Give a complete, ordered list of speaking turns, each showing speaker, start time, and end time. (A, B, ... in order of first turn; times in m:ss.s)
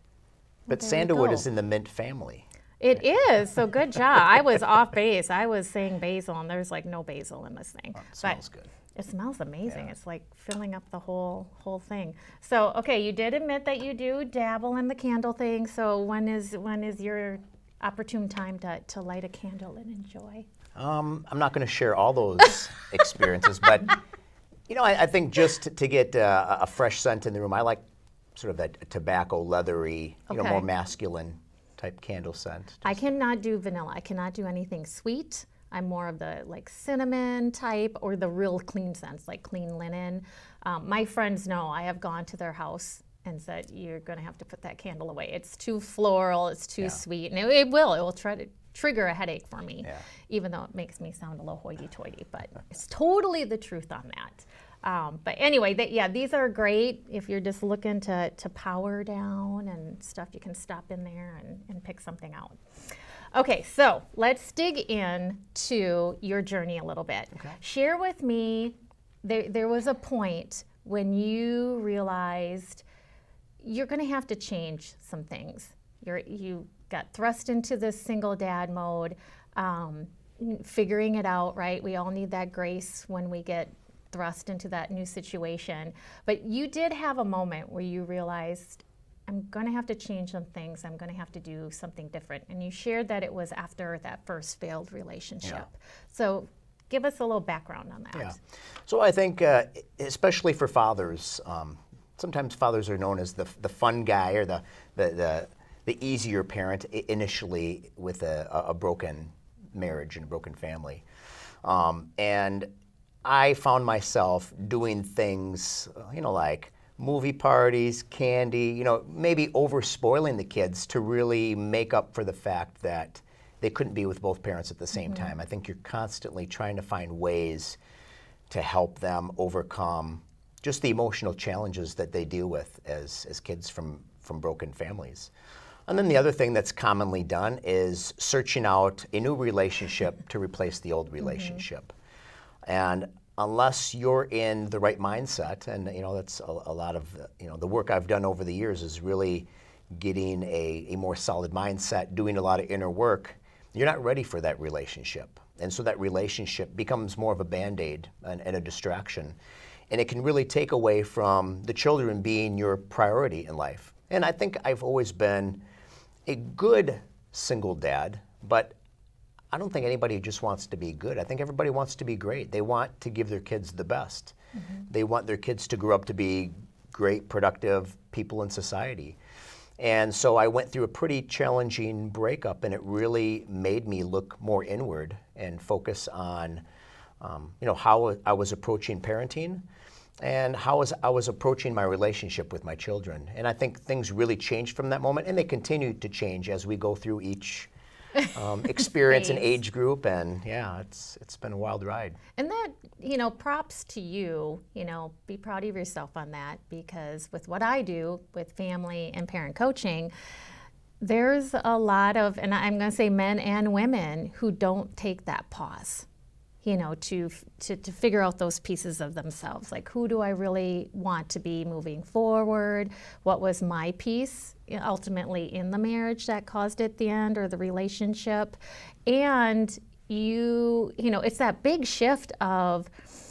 0:00.7-0:01.4 A
0:00.7-0:02.4 B
0:02.8-0:08.4 A
0:08.0-0:08.7 B
0:09.0-0:20.4 A
0:20.8-0:24.0 B
0:24.7-0:27.8 B
0:28.3-0:33.1 B
0:30.3-0:30.6 A
0:32.8-1:02.6 A
1:03.3-1:12.8 A
1:13.6-1:38.4 A
1:38.9-1:51.0 B
1:51.6-1:52.7 B
1:53.2-2:07.8 B
2:08.5-2:15.3 B
2:15.9-2:21.9 B
2:21.3-2:21.6 A
2:22.6-2:39.4 B
2:39.9-2:45.6 B
2:46.2-2:48.8 B
2:49.5-2:54.4 B
2:54.9-2:59.2 B
2:59.8-3:06.6 B
3:07.2-3:09.6 B
3:10.2-3:17.7 B
3:18.3-3:22.2 B
3:19.1-3:19.5 A
3:22.4-3:30.1 A
3:31.0-3:36.1 A
3:36.6-3:52.9 A